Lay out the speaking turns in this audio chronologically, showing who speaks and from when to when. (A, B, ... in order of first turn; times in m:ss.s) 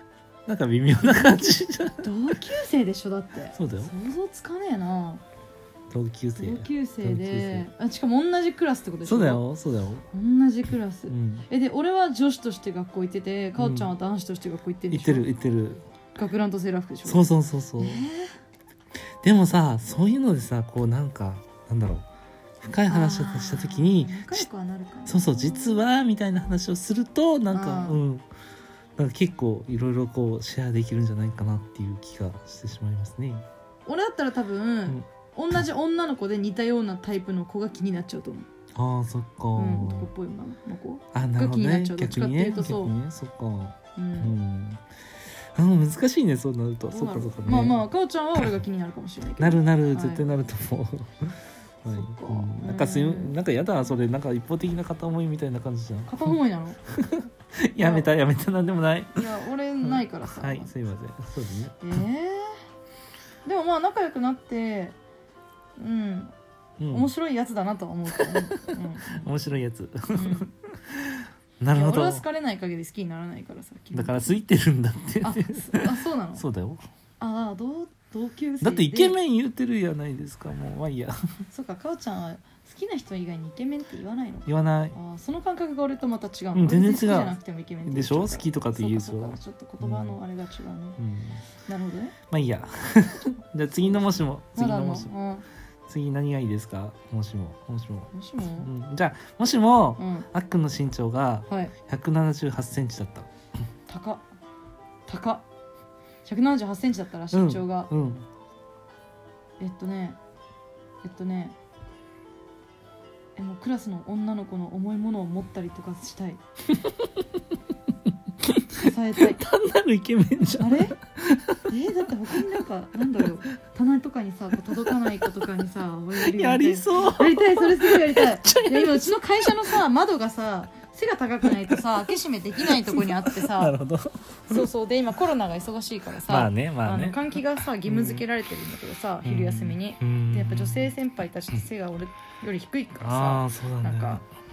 0:00.4-0:02.1 A
0:01.0-0:05.2 B
0:03.5-0:03.9 A
0:05.9-0:07.7 A
0:06.4-0:09.4 B
0:09.0-0:10.0 A
0:10.1-0:15.3 B
0:11.1-0:11.4 A
0:13.6-0:13.9 A
0:14.9-0:15.8 A
0:16.1-0:18.4 B
0:17.0-0:18.0 A
0:19.2-0:22.0 A
0:22.6-0:24.5 A
0:22.9-0:25.8 B
0:25.0-0:28.2 A
0:27.5-0:28.0 B
0:29.0-0:33.4 A
0:33.8-0:38.5 B
0:38.7-0:40.1 A
0:39.5-0:43.0 B
0:41.1-0:44.8 A
0:43.9-0:44.3 B
0:45.5-0:47.8 A
0:46.9-0:50.2 B
0:49.4-0:56.3 A
0:51.8-0:53.4 B
0:56.0-0:56.8 B
0:56.9-0:59.3 A
0:57.8-0:58.1 B
0:59.1-1:00.7 B
0:59.8-1:02.0 A
1:01.8-1:02.6 B
1:03.4-1:05.0 B
1:05.8-1:06.3 B
1:06.8-1:07.1 A
1:06.9-1:09.3 B
1:08.2-1:12.2 A
1:10.1-1:10.5 B
1:11.7-1:14.4 B
1:13.9-1:16.8 A
1:15.2-1:16.4 B
1:17.2-1:19.2 B
1:18.6-1:21.2 A
1:21.5-1:31.0 B
1:24.4-1:25.0 A
1:26.5-1:30.2 A
1:31.0-1:31.4 A
1:31.6-1:32.1 B
1:32.3-1:35.1 A
1:33.8-1:35.4 B
1:35.9-1:43.3 A
1:38.1-1:38.7 B
1:40.0-1:40.3 B
1:41.5-1:41.7 B
1:43.9-1:44.2 B
1:45.1-1:45.4 B
1:46.2-1:47.9 B
1:47.3-1:48.2 A
1:49.6-1:50.2 B
1:51.0-1:51.6 B
1:53.4-1:56.4 B
1:56.7-1:57.0 A
1:58.4-2:01.6 A
1:58.7-1:59.4 B
2:00.6-2:01.0 B
2:01.7-2:13.8 B
2:04.9-2:05.2 A
2:06.2-2:09.8 A
2:11.4-2:11.8 A
2:12.6-2:14.6 A
2:14.5-2:24.2 B
2:16.2-2:18.2 A
2:19.2-2:20.9 A
2:23.0-2:24.2 A